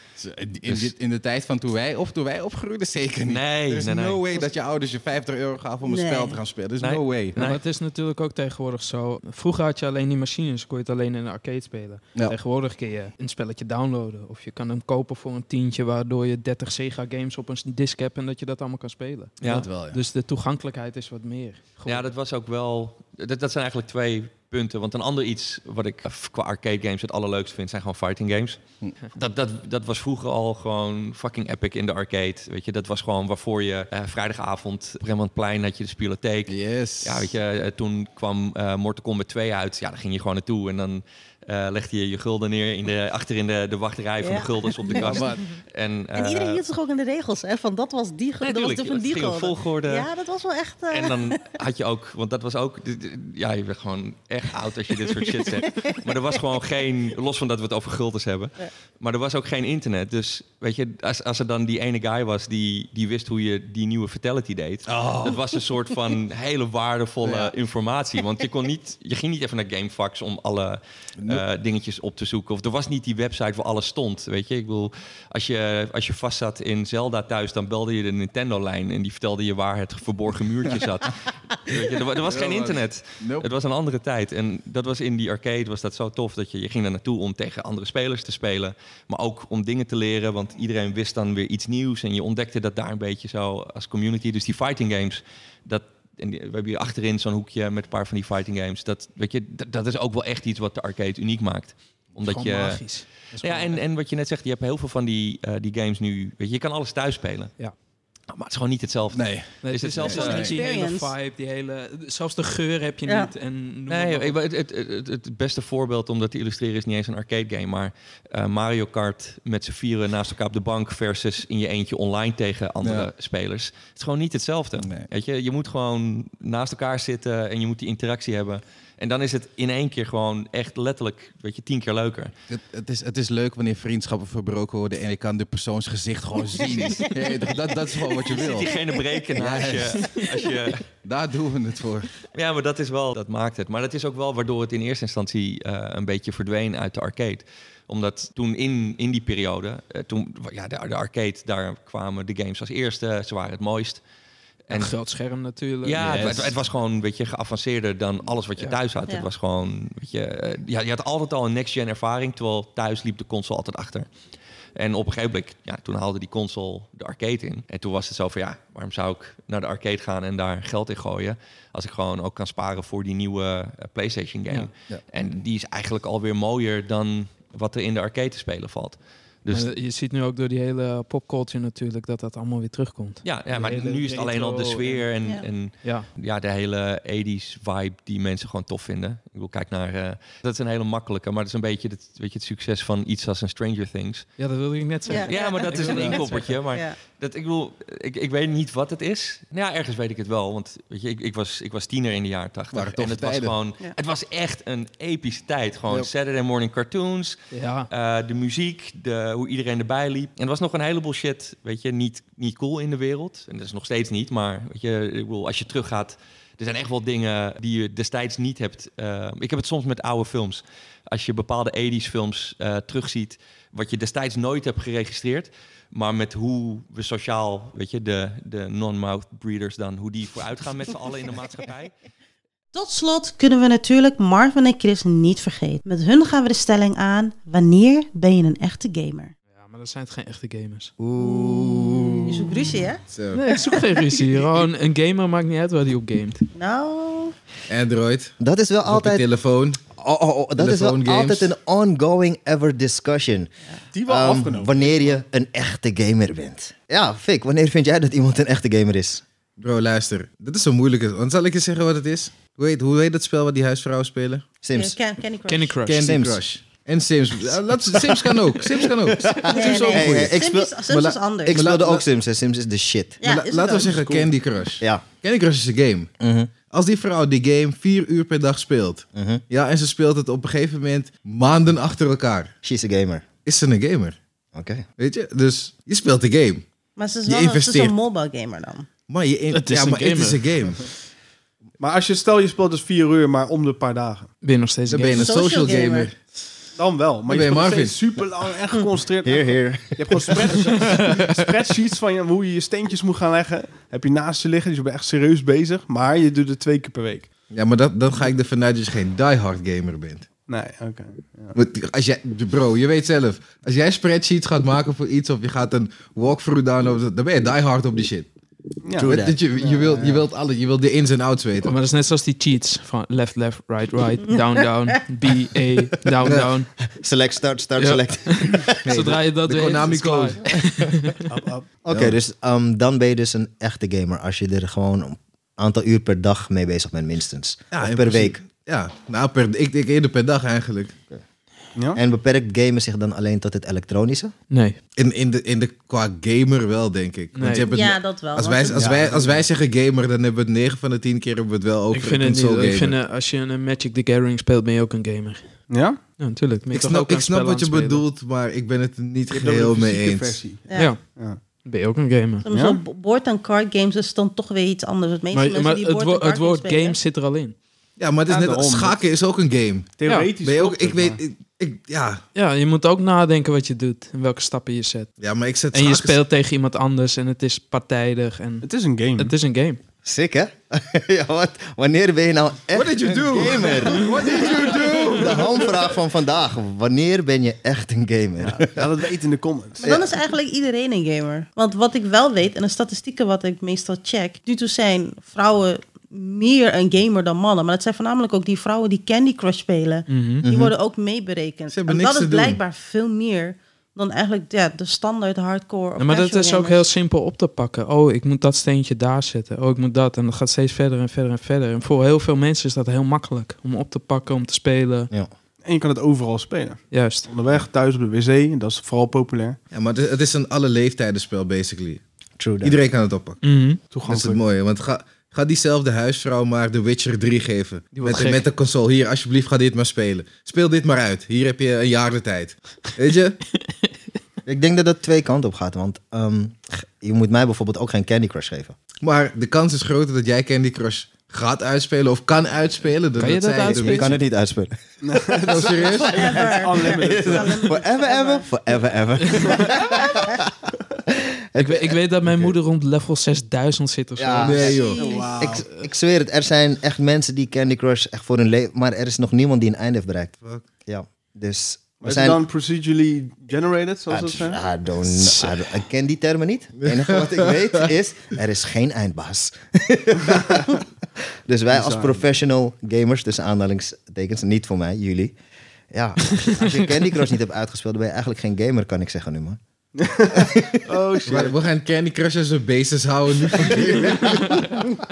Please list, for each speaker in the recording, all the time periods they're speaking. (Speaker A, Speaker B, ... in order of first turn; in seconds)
Speaker A: 0.2-7.4, 19.6-20.0, 36.5-37.3, 45.1-45.4, 64.9-65.3, 71.2-71.4, 82.3-83.5, 109.1-109.5, 110.1-110.6, 122.8-123.1, 124.8-125.1, 132.5-138.8, 139.4-140.2, 141.0-142.1, 202.7-203.6, 243.1-243.4, 247.7-249.8, 250.6-251.5, 259.6-264.5, 265.9-270.3, 270.9-272.1, 273.2-282.5, 283.4-284.2, 285.0-286.6, 287.2-288.0, 289.1-290.8, 294.9-296.2, 297.3-298.0, 307.5-310.3, 311.5-318.3, 319.0-321.8, 328.9-330.4, 331.9-332.2, 337.7-340.9, 345.0-353.0, 356.7-360.4, 368.0-372.2, 375.2-376.2, 382.7-385.6, 400.4-400.7, 401.7-402.6, 419.7-422.0, 422.6-423.4, 424.1-433.4, 439.0-444.2, 445.5-446.4, 454.5-455.0, 460.4-460.7, 466.8-467.6, 481.3-484.5
Speaker B: 0.7-0.9, 3.2-4.2, 6.8-7.6, 19.4-19.7, 21.9-28.6, 29.1-46.6, 48.4-50.1, 50.9-102.9, 103.4-107.5, 108.3-110.4, 113.9-132.3, 138.2-140.8, 142.3-154.0, 154.7-154.9, 155.8-164.1, 164.8-179.7, 183.2-194.2, 195.3-207.4, 207.9-231.9
Speaker C: 5.8-6.4, 44.2-45.2, 46.1-51.5, 55.2-55.9, 110.0-111.1, 113.1-113.3, 195.1-197.0, 232.7-239.3, 242.3-243.0, 246.6-247.3, 264.7-265.8, 269.5-271.6, 273.2-273.9, 287.0-288.9, 295.1-296.1, 347.7-348.8, 362.4-367.0, 389.8-406.8, 446.1-448.5, 454.6-455.4
Speaker D: 7.4-22.1, 102.2-103.8, 109.6-114.4, 154.7-156.6, 179.5-185.1, 185.8-186.1, 194.4-196.5, 207.5-207.9, 239.5-240.9, 243.4-246.4, 265.5-266.0, 289.5-290.6, 294.4-295.3, 321.6-326.7, 327.8-331.2, 344.5-344.8, 347.4-347.7, 351.9-355.6, 356.1-358.1, 360.8-362.5, 365.3-367.6, 370.1-370.4, 372.4-375.1, 375.7-379.8, 400.1-400.4, 406.0-415.1, 416.9-417.3, 423.4-423.8, 427.9-428.5, 433.6-433.9, 443.2-444.1, 451.6-454.7, 465.0-465.8, 484.5-484.8
Speaker E: 241.0-242.4, 248.4-249.2, 249.9-253.5, 254.1-259.2, 264.6-265.0, 266.0-266.4, 268.0-270.8, 271.5-273.2, 276.2-276.5, 279.1-279.4, 282.6-283.3, 284.6-284.9, 299.2-300.8, 319.0-319.3, 320.0-320.2, 326.2-328.9, 331.9-338.4, 341.9-344.3, 348.8-349.2, 380.0-388.9, 389.8-390.1, 422.4-422.8, 434.5-438.8, 443.6-444.7, 446.1-450.3, 451.1-452.5, 454.2-460.3, 460.9-462.4, 464.1-470.8, 471.5-475.4, 475.9-479.6
Speaker F: 244.3-244.7, 253.9-255.2, 273.9-274.3, 291.8-294.3, 296.8-307.3, 310.5-311.6, 318.8-320.1, 331.3-331.7, 355.7-356.0, 359.3-361.4, 362.5-362.8, 368.3-369.1, 370.0-371.2, 378.6-379.4, 388.4-390.0, 415.6-419.6, 423.9-424.4, 445.0-447.6, 455.0-455.6, 462.0-464.6, 471.7-472.2, 479.9-481.6, 483.6-484.1